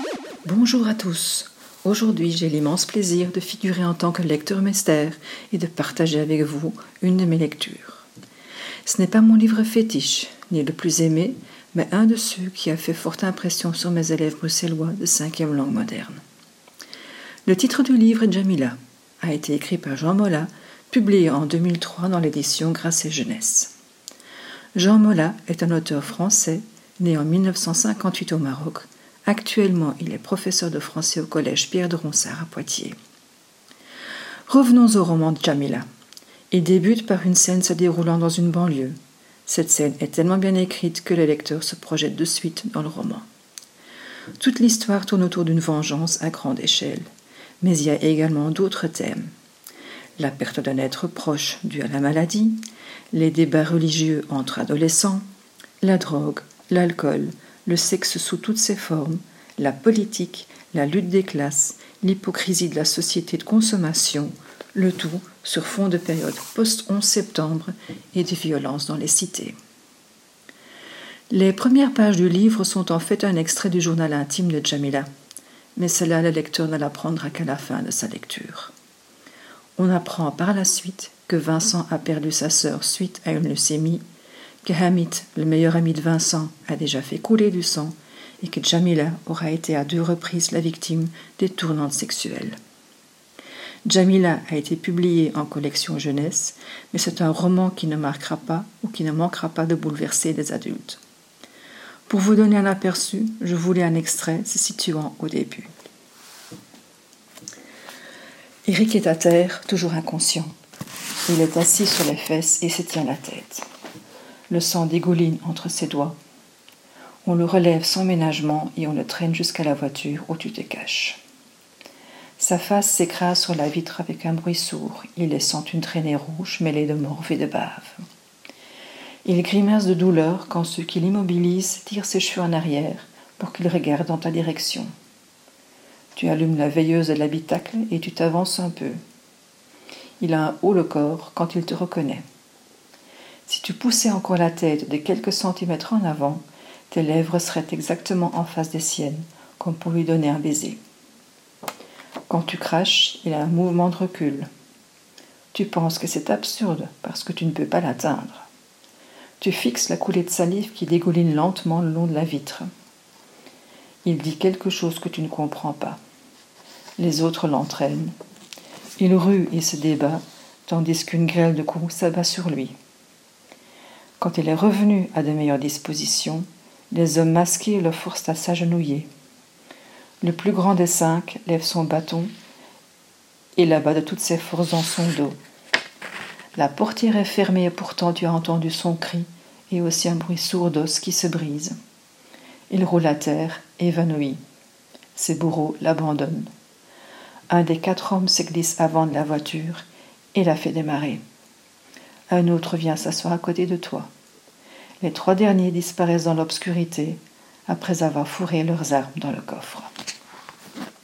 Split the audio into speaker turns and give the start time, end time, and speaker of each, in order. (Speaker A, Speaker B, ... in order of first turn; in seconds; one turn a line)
Speaker A: 0.4-8.1
Speaker A: 8.8-16.2
Speaker A: 17.4-23.7
Speaker A: 24.7-33.0
Speaker A: 34.5-35.8
Speaker A: 36.5-43.2
Speaker A: 44.4-47.1
Speaker A: 47.6-49.3
Speaker A: 50.2-52.6
Speaker A: 53.1-55.2
Speaker A: 55.8-69.5
Speaker A: 71.3-75.1
Speaker A: 75.8-78.7
Speaker A: 79.8-84.0
Speaker A: 84.6-92.6
Speaker A: 93.8-101.0
Speaker A: 102.1-105.7
Speaker A: 108.6-110.5
Speaker A: 111.3-113.7
Speaker A: 114.5-116.2
Speaker A: 117.2-121.2
Speaker A: 122.4-128.0
Speaker A: 129.2-134.9
Speaker A: 136.1-139.0
Speaker A: 140.2-142.2
Speaker A: 143.4-150.8
Speaker A: 152.3-154.5
Speaker A: 155.5-158.5
Speaker A: 159.4-162.7
Speaker A: 164.0-166.0
Speaker A: 167.0-168.1
Speaker A: 169.0-172.7
Speaker A: 174.2-179.1
Speaker A: 180.2-182.3
Speaker A: 183.6-185.3
Speaker A: 186.5-191.8
Speaker A: 192.7-194.4
Speaker A: 195.1-196.5
Speaker A: 197.5-201.2
Speaker A: 202.3-204.1
Speaker A: 205.0-209.9